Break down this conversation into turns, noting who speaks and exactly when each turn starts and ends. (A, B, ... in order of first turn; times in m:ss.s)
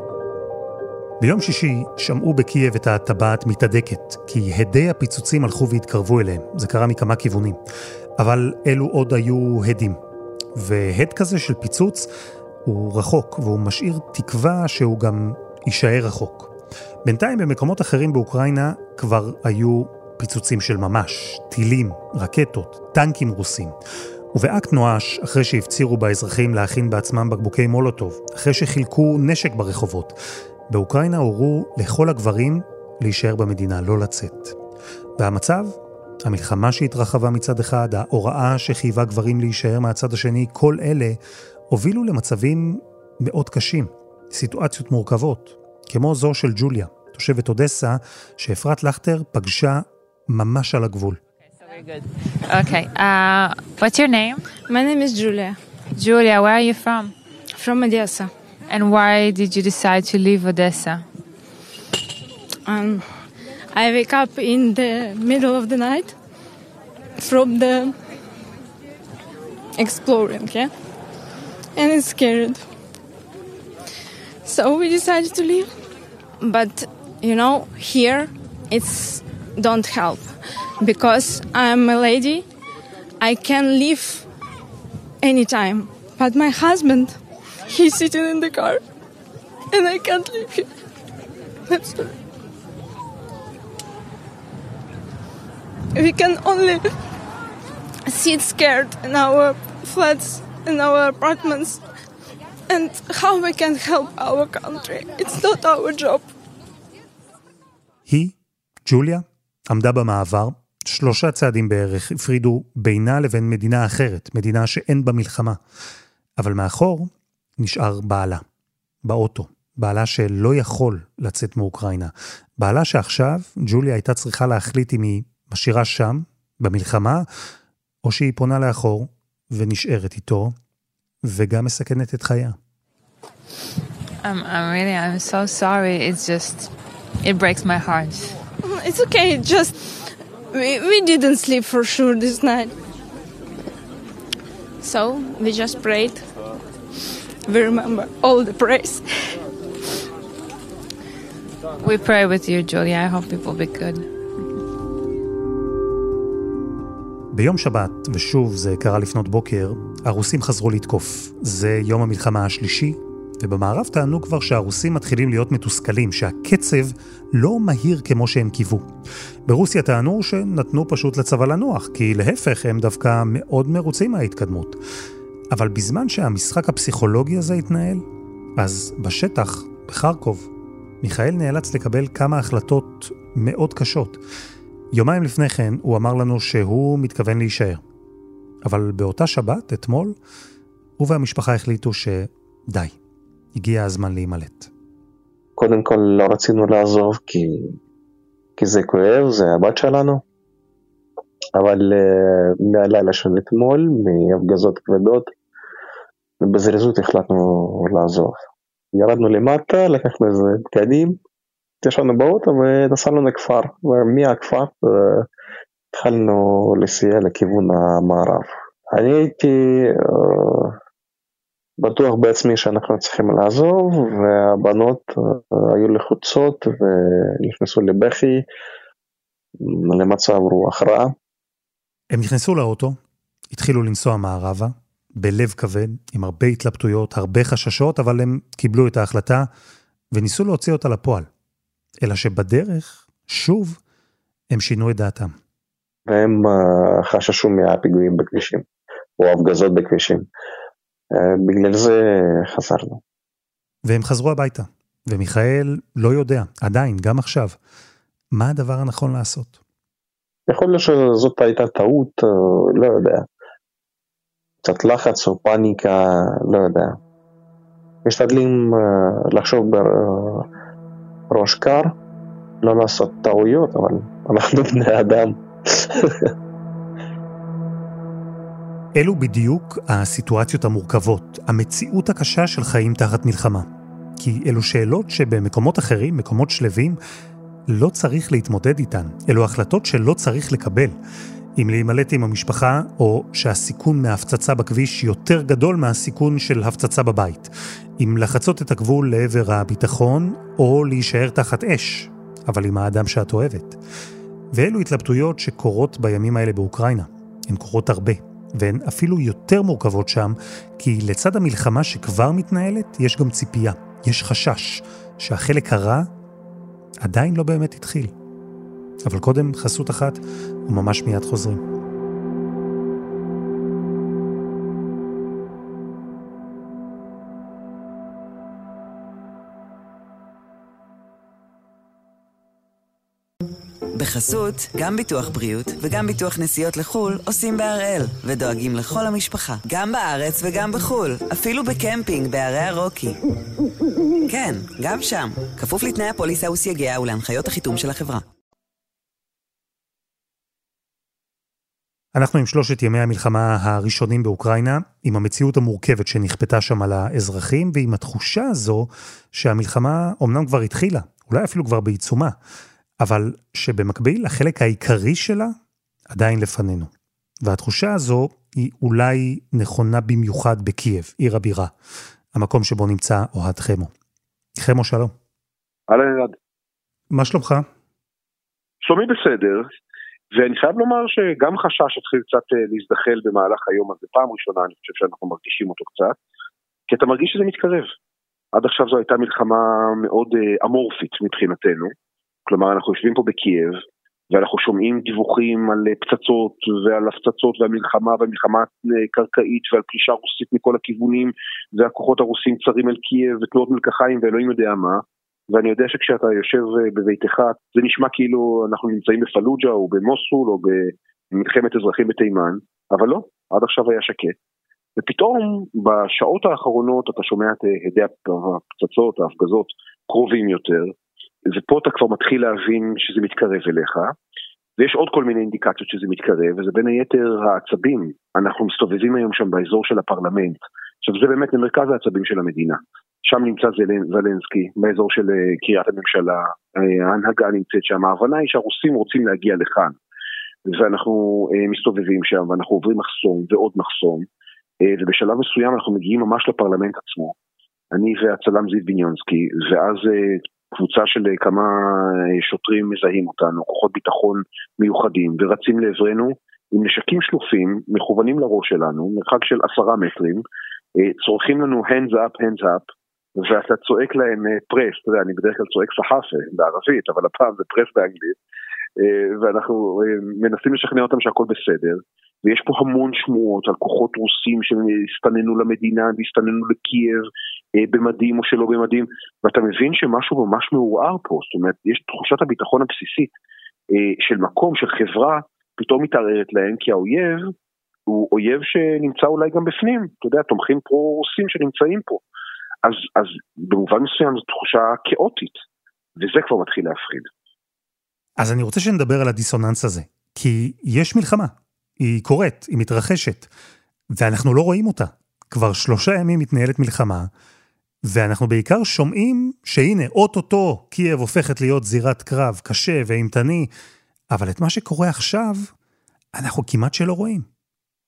0:01.2-0:07.6 A
0:08.2-0:10.0 A
0:10.6-0:12.1 A
0:12.6-0:16.5 A
0:17.0-0:23.8 A
0:24.3-0:30.2 A
0:30.7-0:34.5 A
0:35.2-0:41.2 A
0:41.7-0:51.2 A
0:51.8-0:54.4 B
0:54.7-0:55.6 C
0:55.9-0:57.1 B
0:57.6-0:58.3 C
0:58.7-1:01.0 B
1:02.6-1:03.1 C
1:03.7-1:06.1 C
1:07.2-1:08.0 C
1:09.8-1:10.7 C
1:11.7-1:12.6 C
1:14.4-1:15.7 C
1:16.4-1:22.4 C
1:23.2-1:24.3 C
1:25.2-1:28.8 C
1:29.7-1:30.7 C
1:31.7-1:32.2 C
1:35.9-1:36.9 C
1:38.1-1:41.8 C
1:42.7-1:46.3 C
1:48.1-1:48.3 A
1:48.8-1:55.6 A
1:56.4-1:58.4 A
1:59.0-2:07.2 A
2:08.0-2:10.5 A
2:11.2-2:12.6 A
2:14.2-2:16.7 B
2:17.2-2:18.4 B
2:18.6-2:22.8 C
2:24.8-2:26.3 C
2:27.4-2:29.4 C
2:31.8-2:34.1 B
2:37.3-2:48.9 A
2:49.4-2:54.8 A
2:55.5-2:58.0 A
2:58.6-3:00.5 A
3:01.0-3:04.2 A
3:04.9-3:07.8 A
3:08.6-3:10.2 A
3:11.0-3:12.9 A
3:13.5-3:14.7 A
3:15.6-3:17.8 D
3:18.6-3:20.2 D
3:21.6-3:25.3 D
3:26.4-3:28.4 D
3:28.9-3:31.2 D
3:31.8-3:35.3 D
3:35.9-3:40.8 D
3:41.8-3:48.4 D
3:49.6-3:51.1 D
3:52.1-3:53.0 A
3:53.5-3:59.5 A
4:00.1-4:01.3 A
4:02.0-4:03.8 A
4:04.5-4:05.3 A
4:06.1-4:08.6 D
4:09.2-4:10.2 D
4:11.1-4:13.0 D
4:13.8-4:17.6 A
4:18.3-4:19.6 A
4:20.5-4:23.2 D
4:24.6-4:27.0 D
4:28.0-4:30.4 D
4:31.3-4:31.9 D
4:32.6-4:36.3 D
4:38.9-4:43.7 A
4:44.2-4:47.0 A
4:47.7-4:50.9 A
4:51.6-5:03.8 A
5:04.5-5:16.1 A
5:17.0-5:18.1 A
5:19.0-5:21.6 A
5:34.0-5:43.2 E
5:44.3-5:48.2 E
5:52.1-6:02.3 A
6:03.0-6:05.5 A
6:06.1-6:06.9 A
6:07.4-6:11.7 A
6:12.3-6:13.9 A
6:14.6-6:15.1 A
6:15.9-6:16.3 F
6:17.1-6:17.6 A
6:18.8-6:19.7 F
6:20.3-6:26.1 F
6:26.9-6:27.9 F
6:28.5-6:31.9 F
6:32.5-6:33.8 F
6:34.3-6:54.3 F
6:55.0-7:00.9 F
7:01.5-7:04.1 F
7:04.8-7:19.9 F
7:20.7-7:24.2 F
7:24.8-7:27.3 F
7:27.9-7:40.4 F
7:41.0-7:42.8 F
7:43.4-7:48.3 F
7:49.0-7:57.2 F
7:57.8-8:03.3 F
8:03.9-8:07.5 F
8:08.1-8:12.2 F
8:12.8-8:15.6 F
8:16.2-8:17.3 F
8:18.4-8:23.5 A
8:24.1-8:27.3 A
8:28.0-8:33.7 A
8:34.3-8:35.7 A
8:36.4-8:37.4 A